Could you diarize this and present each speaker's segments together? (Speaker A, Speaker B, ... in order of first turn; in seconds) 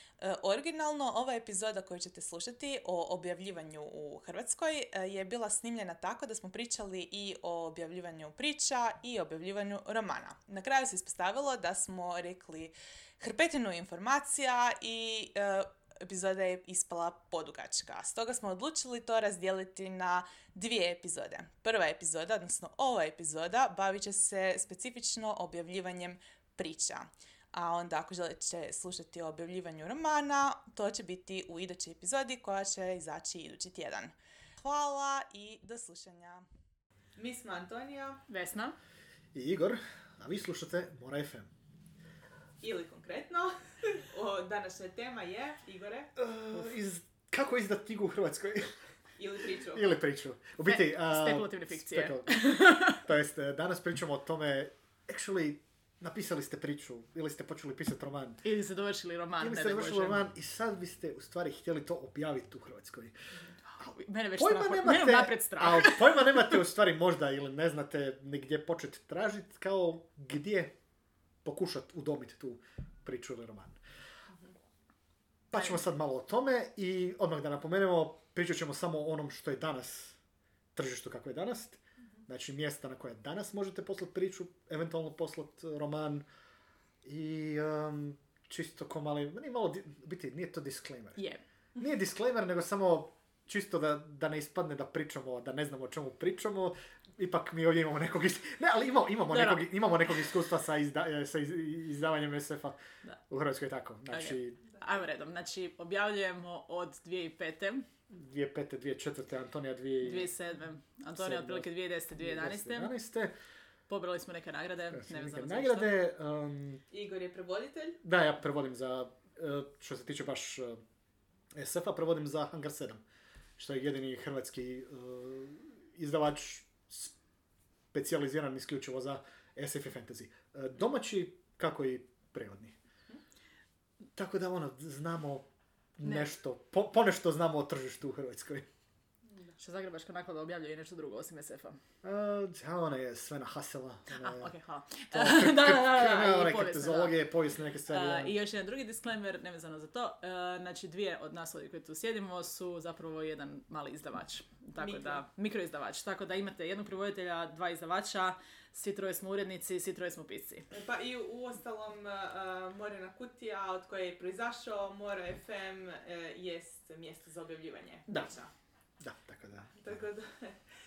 Speaker A: 0.2-36.5, 37.1-38.2, 42.6-46.1, 49.2-49.9, 116.9-118.0, 154.8-155.2, 160.7-168.5, 169.8-170.6
Speaker B: 38.3-38.8, 50.6-53.0, 58.4-60.2, 63.7-66.6, 99.3-100.1, 104.1-107.9, 110.0-112.9, 113.9-115.9, 136.0-136.3, 139.6-141.8, 144.1-147.2, 147.9-160.7
Speaker C: 39.3-41.5, 46.1-48.7, 49.7-58.4, 59.4-63.1, 64.4-70.7, 71.4-73.8, 75.5-80.2, 80.7-86.2, 87.0-91.2, 91.8-102.8, 103.3-104.6, 108.1-110.3, 111.2-113.3, 114.9-116.8, 118.0-120.8, 121.5-123.0, 123.6-127.1, 127.9-132.7, 134.2-135.5, 136.0-138.7, 142.0-144.5, 145.1-148.3, 169.0-169.9